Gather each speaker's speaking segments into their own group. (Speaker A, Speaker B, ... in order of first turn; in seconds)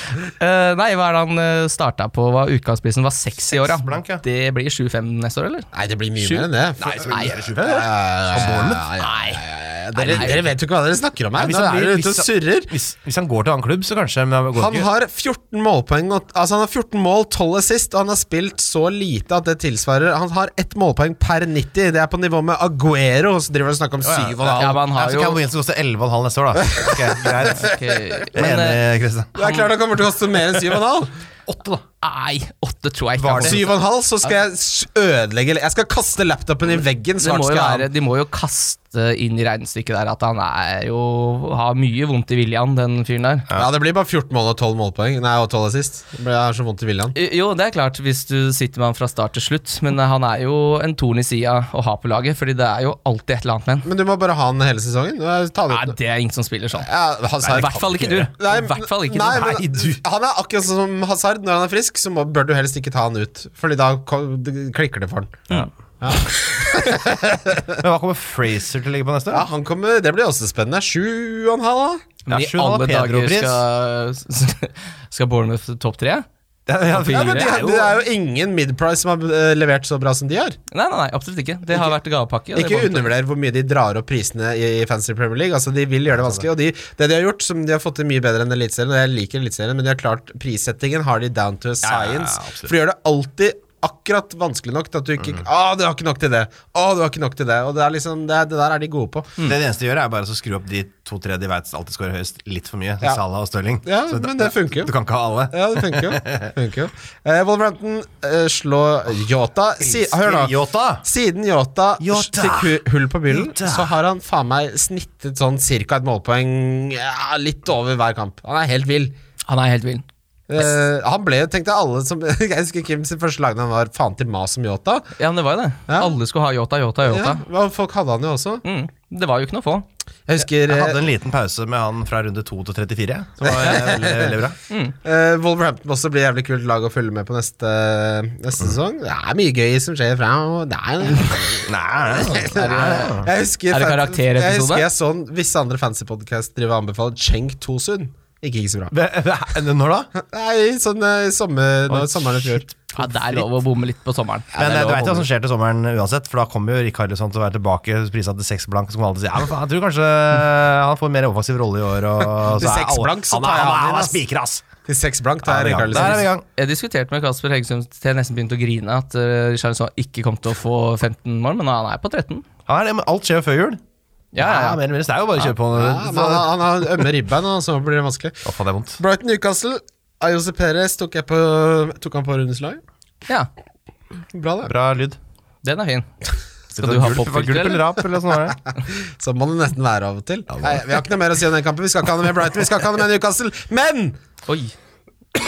Speaker A: 0.3-7.3, 9.0-9.4, 9.9-10.5, 24.6-25.4, 27.5-28.8, 29.3-29.7, 32.0-33.7, 37.2-43.5, 47.1-53.9, 55.7-56.9, 57.5-59.6, 72.2-76.2, 76.9-77.5, 80.7-83.1, 119.5-120.0, 125.2-127.4, 128.6-129.8, 134.7-134.9, 142.5-144.8, 152.9-154.5, 165.9-172.4, 174.3-174.8, 185.6-186.1, 186.8-187.9, 194.4-194.7
Speaker B: 3.5-4.2, 6.8-8.9, 10.1-10.3, 11.3-14.9, 24.0-27.7, 28.3-29.3, 31.5-31.8, 33.2-33.6, 57.4-58.3, 59.3-60.0, 67.8-69.5, 72.3-73.6, 76.7-77.9, 91.8-92.7, 99.4-106.5, 109.8-111.0, 112.0-113.9, 130.7-134.6, 141.6-143.3, 148.9-150.1, 151.9-153.5, 154.6-164.6, 165.4-166.4, 172.7-173.8, 174.4-176.5, 178.4-179.0, 184.6-185.2, 186.7-188.6, 190.5-190.8
Speaker C: 5.7-12.7, 14.5-24.8, 26.6-27.6, 29.4-31.1, 33.4-37.9, 43.5-47.1, 53.8-56.0, 56.8-67.8, 69.3-72.0, 77.0-80.6, 81.7-81.9, 82.5-99.4, 103.8-104.9, 105.5-119.1, 120.5-125.1, 125.9-126.2, 127.1-128.6, 130.3-131.0, 133.4-134.4, 135.0-148.9, 150.2-152.7, 154.5-155.2, 162.4-164.2, 164.8-166.3, 175.6-178.4, 179.0-182.8, 184.3-184.7, 188.8-194.2